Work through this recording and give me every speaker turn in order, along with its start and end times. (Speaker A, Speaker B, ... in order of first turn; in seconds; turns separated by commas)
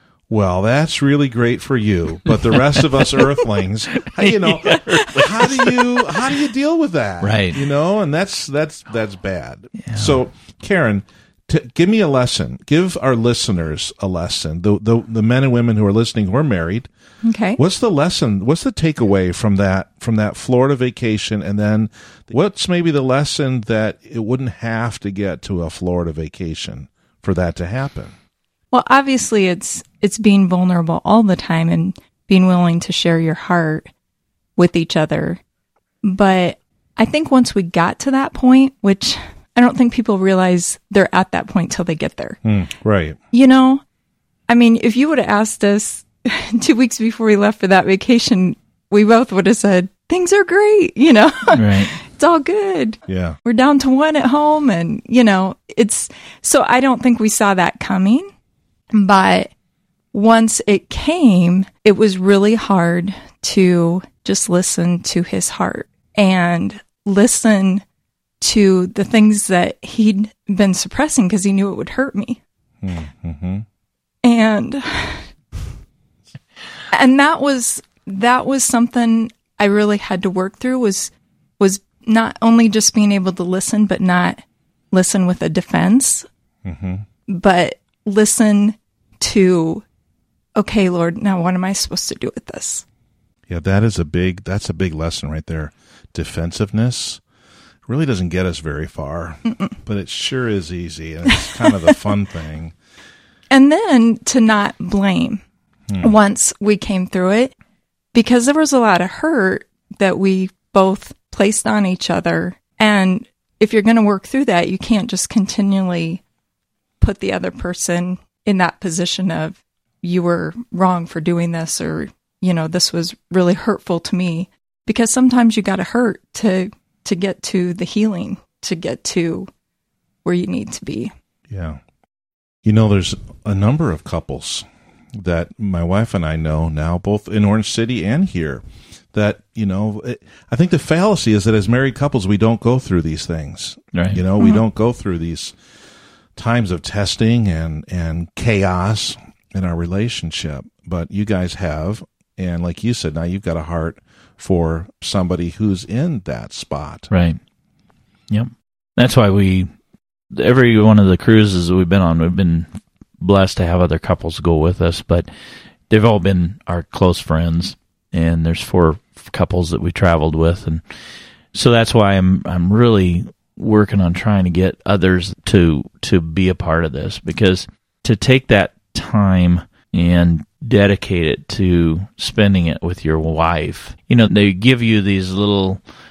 Speaker A: 0.3-16.9, Speaker B: 4.0-5.8, Speaker B: 7.2-7.6, Speaker B: 9.8-10.2, Speaker C: 17.2-17.6, Speaker A: 17.6-28.1, Speaker C: 28.7-33.9, Speaker C: 34.5-35.4, Speaker C: 36.0-42.4, Speaker A: 42.4-43.2, Speaker C: 43.3-43.8, Speaker C: 44.5-58.3, Speaker B: 51.5-51.9, Speaker A: 53.1-53.4, Speaker C: 58.9-59.5, Speaker C: 60.1-67.8, Speaker C: 68.4-72.4, Speaker A: 72.8-73.6, Speaker C: 74.2-75.3, Speaker C: 76.9-84.4, Speaker C: 84.9-86.3, Speaker A: 86.6-87.0, Speaker C: 87.3-89.9, Speaker C: 90.5-92.8, Speaker A: 93.5-97.2, Speaker A: 97.9-102.7, Speaker C: 101.3-101.9, Speaker C: 103.5-105.4, Speaker A: 105.9-106.1, Speaker C: 106.0-107.5, Speaker C: 108.1-116.2, Speaker C: 117.0-129.5, Speaker C: 130.2-131.1, Speaker A: 131.5-131.8, Speaker A: 132.6-145.6, Speaker B: 143.9-144.2, Speaker A: 146.4-157.1, Speaker B: 157.1-157.4, Speaker B: 158.3-159.7, Speaker B: 160.3-162.7, Speaker B: 163.2-165.3, Speaker B: 165.9-170.8, Speaker B: 171.5-185.8